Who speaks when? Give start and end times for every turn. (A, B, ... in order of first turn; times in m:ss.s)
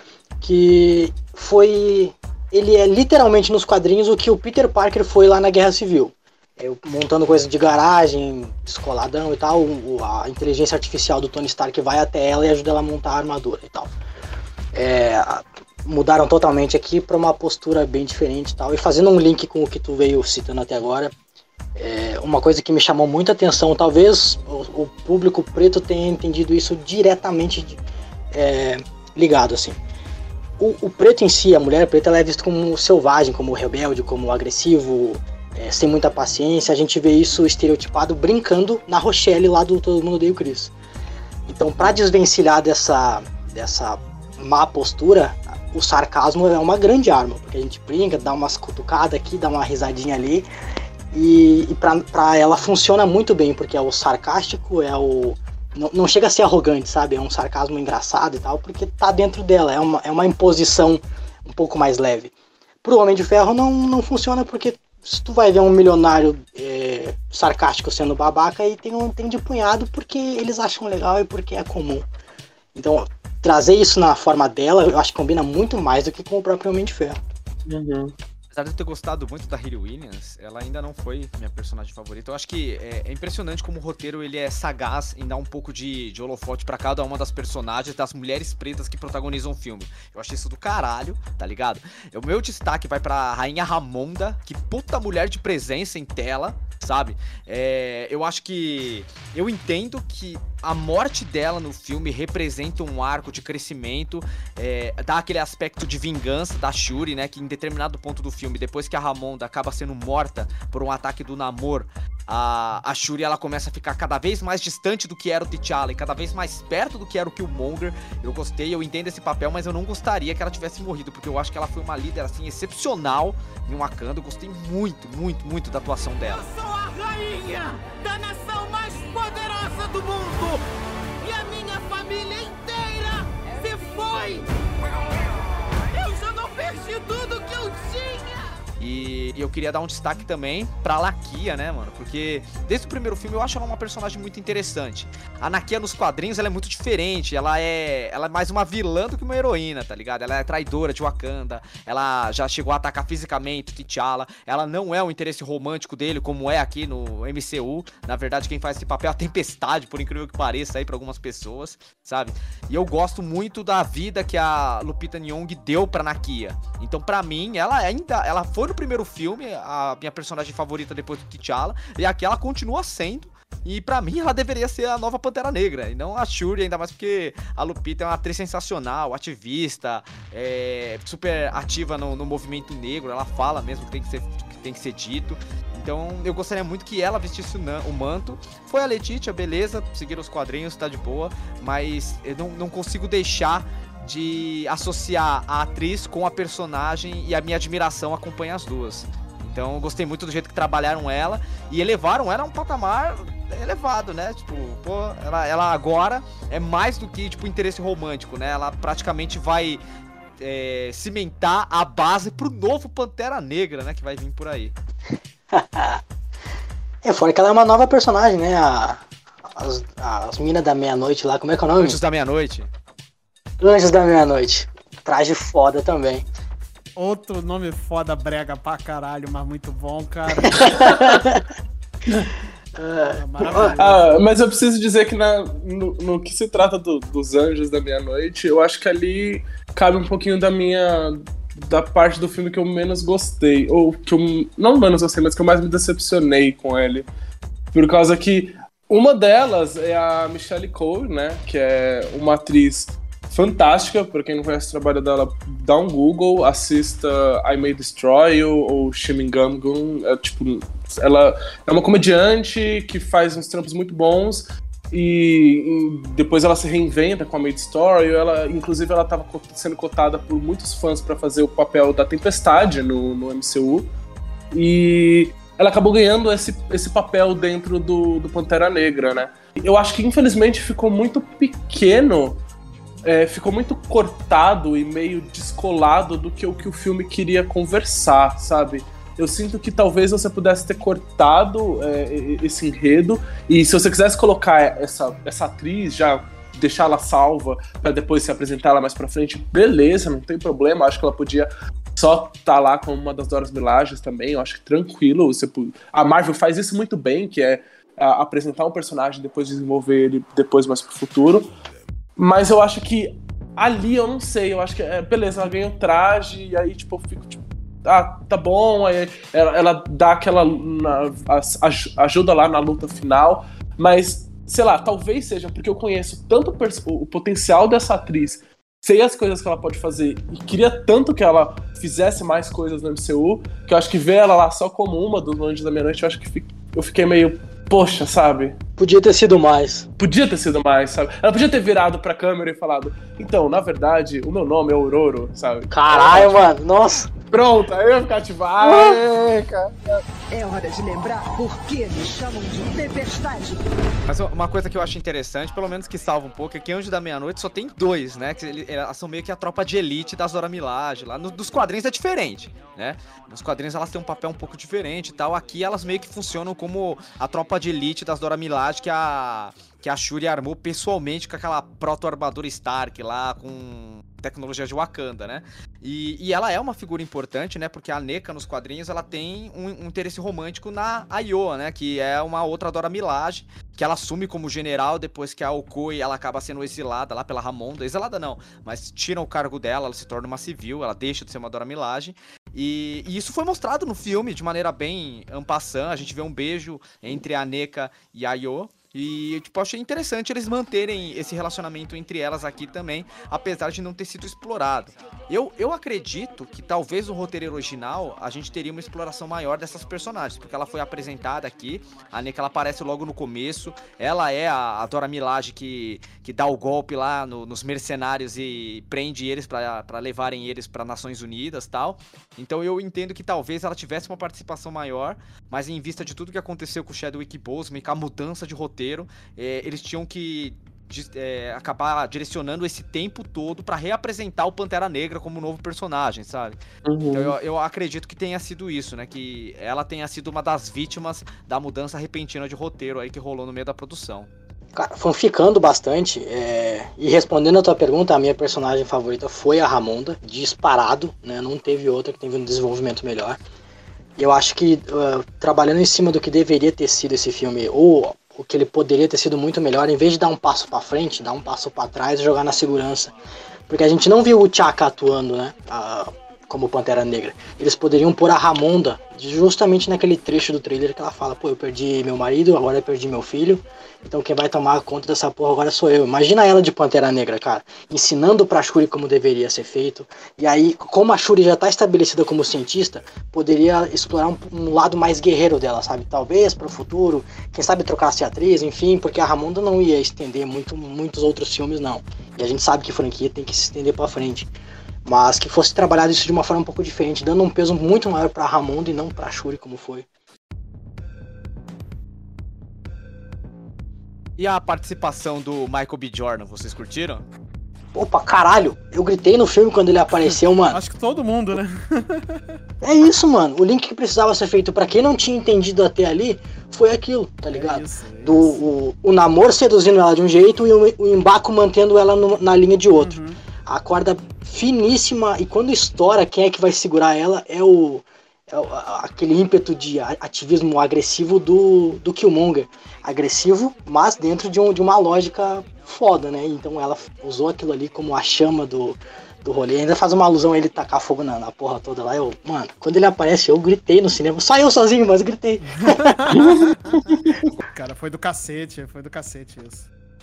0:00.4-0:13.9 A
0:14.7-0:21.1 A
0:21.8-0:27.8 A
0:28.3-0:29.8 A
0:30.6-0:40.7 A
0:41.5-0:50.5 A
0:51.1-1:02.3 A
1:02.8-1:12.0 A
1:12.7-1:17.2 A
1:17.7-1:18.1 B
1:18.5-2:06.5 C
2:06.3-2:10.6 D
2:11.2-2:14.5 D
2:15.8-2:18.5 D
2:18.8-3:29.8 C
3:30.4-3:34.7 C
3:35.5-3:36.0 A
3:37.0-3:39.0 A
3:39.6-3:42.0 A
3:41.8-3:42.7 C
3:43.6-3:46.2 A
3:47.0-3:51.2 E
3:50.5-3:51.4 A
3:52.8-3:54.0 A
3:53.1-3:54.1 E
3:53.8-4:07.0 B
4:07.7-4:33.9 B
4:34.5-4:42.4 B
4:43.0-5:11.5 B
5:12.2-5:38.6 B
5:38.8-5:39.9 A
5:40.0-5:46.3 B
5:45.7-5:47.1 A
5:47.3-5:50.0 B
5:50.3-5:53.6 D
5:54.1-7:16.6 C
7:16.8-7:17.3 B
7:17.1-7:24.3 C
7:24.7-7:33.4 A
7:34.2-7:43.1 A
7:43.7-8:14.5 A
8:15.0-8:20.0 A
8:24.4-8:27.2 C
8:27.9-8:30.8 A
8:30.1-8:32.6 E
8:32.8-9:06.6 A
8:37.5-8:38.6 E
8:42.9-8:43.4 E
9:05.9-9:09.9 E